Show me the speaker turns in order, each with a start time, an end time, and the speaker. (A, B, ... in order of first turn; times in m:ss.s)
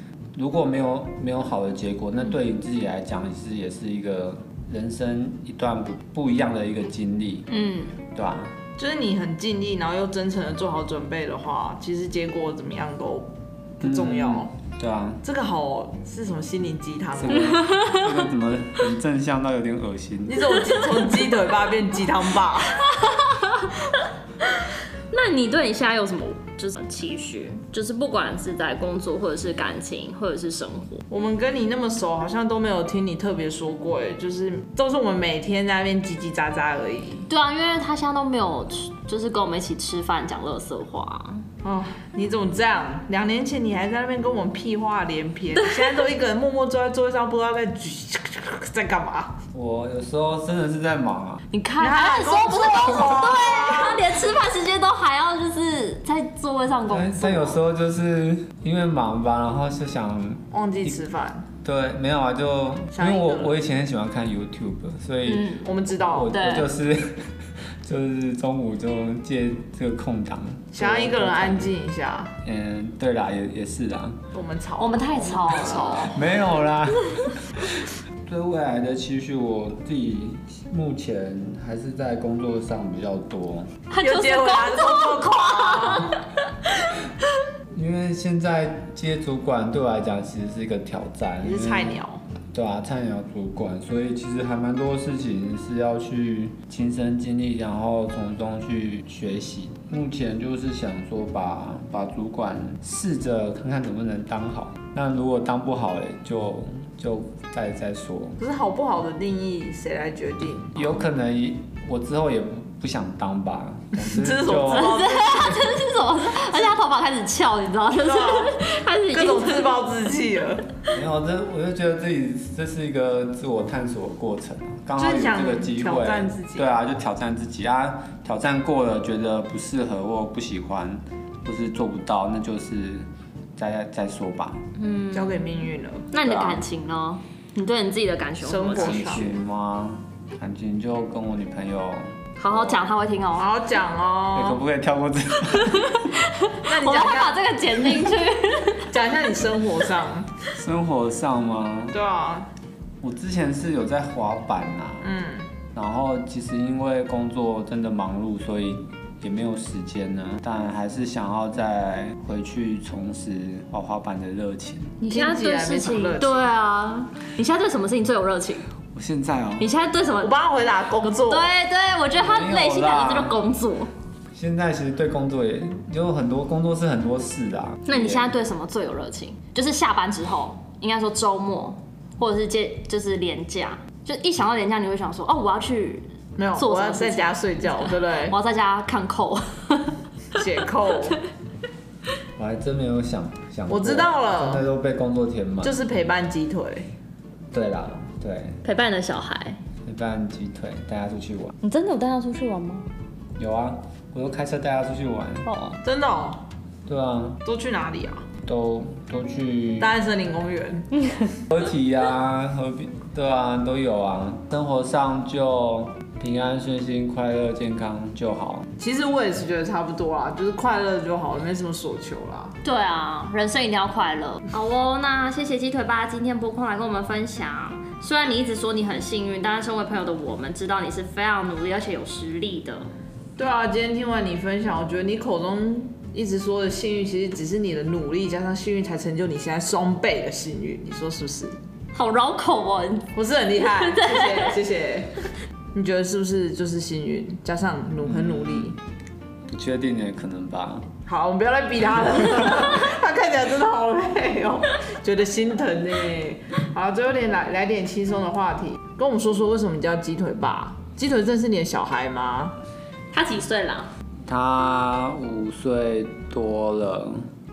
0:00.4-0:07.5 A
0:07.5-0:08.0 B
0:08.1-0:08.5 A
0:08.8-0:14.5 C
0:13.8-0:15.2 A
0:15.2-0:17.6 C
0:17.2-0:20.6 A
0:17.6-0:18.0 B
0:20.3-0:22.8 C
0:22.8-0:24.0 B
0:25.1-0:31.0 B
0:31.1-0:37.3 C
0:37.3-0:41.4 B
0:41.6-0:49.4 C
0:49.5-0:51.4 A
0:51.5-0:57.6 B
0:51.8-0:54.2 C
0:56.9-1:01.0 A
1:00.5-1:01.5 C
1:01.6-1:07.3 A
1:02.9-1:03.6 C
1:05.3-1:05.6 B
1:05.6-1:06.3 C
1:06.3-1:06.7 B
1:07.8-1:11.7 A
1:10.7-1:12.4 C
1:12.4-1:14.2 A
1:14.3-1:16.3 C
1:14.8-1:16.2 B
1:16.1-1:23.7 A
1:23.9-1:26.2 B
1:24.0-1:26.2 C
1:27.7-1:32.0 A
1:31.4-1:32.2 C
1:32.5-1:48.4 A
1:48.4-1:51.0 C
1:50.8-1:55.1 A
1:54.0-1:55.6 C
1:54.6-1:59.7 B
1:58.0-2:00.6 C
2:00.9-2:14.6 A
2:05.0-2:06.7 C
2:14.8-2:15.5 B
2:15.1-2:16.1 C
2:16.1-2:19.3 B
2:16.2-2:16.6 A
2:18.4-2:19.3 C
2:18.7-2:22.8 A
2:22.4-2:23.5 B
2:23.4-2:24.6 C
2:24.3-2:26.0 A
2:25.6-2:28.9 B
2:26.6-2:27.4 C
2:28.9-2:30.3 C
2:30.5-2:32.0 A
2:31.9-2:32.5 C
2:33.0-2:35.2 A
2:35.0-2:35.5 C
2:35.7-2:45.0 A
2:45.0-2:48.7 B
2:45.1-2:46.4 C
2:48.9-2:49.7 A
2:49.6-2:50.3 B
2:50.2-2:51.5 C
2:51.0-2:53.9 B
2:52.2-2:53.4 A
2:54.4-2:58.3 A
2:57.9-3:10.0 B
3:06.4-3:08.4 C
3:10.4-3:11.2 C
3:12.4-3:15.8 A
3:13.7-3:14.6 C
3:15.6-3:16.9 C
3:17.5-3:18.6 A
3:18.6-3:19.6 B
3:19.8-3:21.6 A
3:21.6-3:22.9 B
3:23.4-3:25.5 A
3:25.4-3:25.8 B
3:25.8-3:26.4 C
3:26.9-3:27.4 A
3:27.4-3:28.3 C
3:28.4-3:30.0 A
3:29.8-3:30.9 C
3:31.0-3:31.4 B
3:31.5-3:38.7 A
3:38.8-3:42.6 C
3:42.6-3:52.9 B
3:53.4-4:01.6 C
4:01.9-4:03.1 B
4:03.1-4:08.8 C
4:03.7-4:04.6 B
4:08.0-4:08.8 A
4:09.5-4:10.9 A
4:11.1-4:22.6 C
4:23.1-4:23.9 B
4:24.3-4:27.3 A